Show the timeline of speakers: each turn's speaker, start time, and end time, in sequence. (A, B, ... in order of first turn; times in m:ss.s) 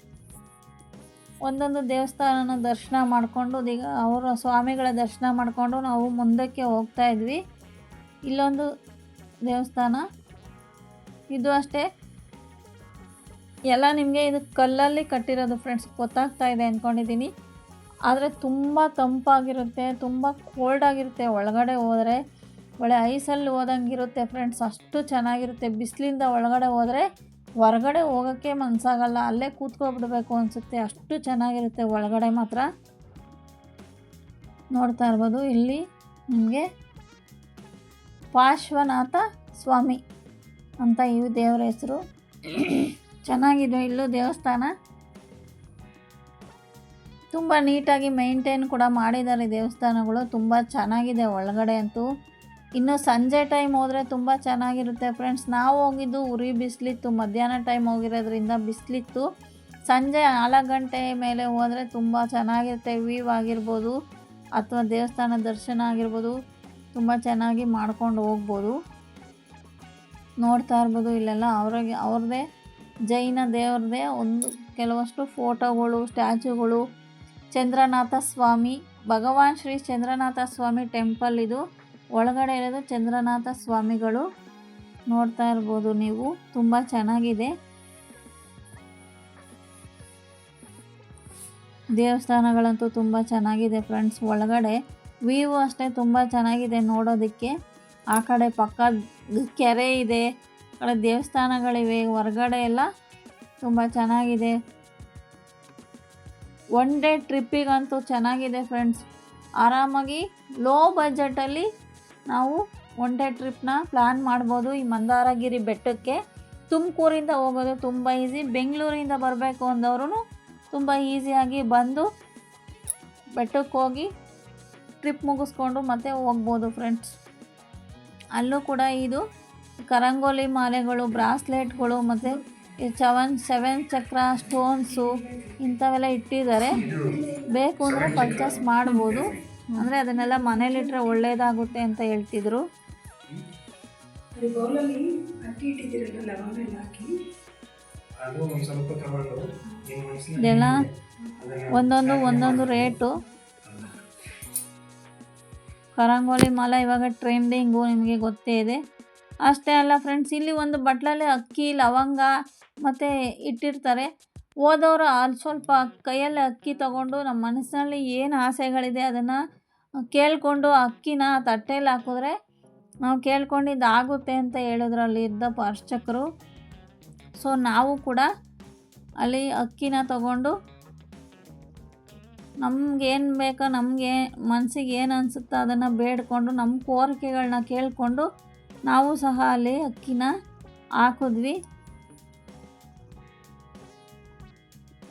0:01.4-0:07.4 A
0:08.3-0:08.6 A
0:09.5-0:10.0 A
0:11.3-0:11.8 A
0:13.7-0:17.3 A
0:18.1-0:22.2 A
0:22.8-0:27.0 A
0:27.6-0:32.6 A
0:34.8-0:36.6 A
0:38.3-0:40.0 A
0:40.8-0:42.0 A
0:42.5-0:44.7 A
0:47.3-0:52.0 A
0:52.8-0:59.2 A
0:59.9-1:03.9 A
1:04.6-1:06.3 A
1:06.9-1:08.7 A
1:10.4-1:12.4 A
1:13.1-1:16.8 A
1:17.6-1:21.6 A
1:22.2-1:24.2 A
1:25.1-1:27.5 A
1:32.0-1:34.8 A
1:35.3-1:37.5 A
1:38.1-1:38.9 A
1:39.4-1:40.2 A
1:40.8-1:42.9 A
1:43.6-1:44.5 A
1:46.8-1:49.0 A
1:49.6-1:51.6 A
1:52.3-1:56.2 A
1:56.7-2:00.2 A
2:00.7-2:02.0 A
2:03.4-2:04.1 A
2:05.0-2:07.1 A
2:08.4-2:09.2 A
2:09.9-2:16.8 A
2:14.8-2:15.6 B
2:16.7-2:18.6 B
2:16.7-2:17.1 C
2:17.5-2:22.6 A
2:17.8-2:19.4 C
2:20.0-2:21.7 B
2:24.3-2:27.1 B
2:28.2-2:30.8 C
2:30.4-2:30.8 A
2:31.4-2:33.0 C
2:31.7-2:33.1 A
2:33.6-2:34.0 C
2:36.0-2:38.8 A
2:39.5-2:42.3 A
2:42.8-2:44.1 A
2:44.6-2:49.4 A
2:50.1-2:52.3 A
2:53.1-2:56.2 A
2:57.4-2:58.3 A
2:59.2-3:00.5 A
3:02.6-3:08.2 A
3:08.9-3:10.3 A
3:11.0-3:11.6 A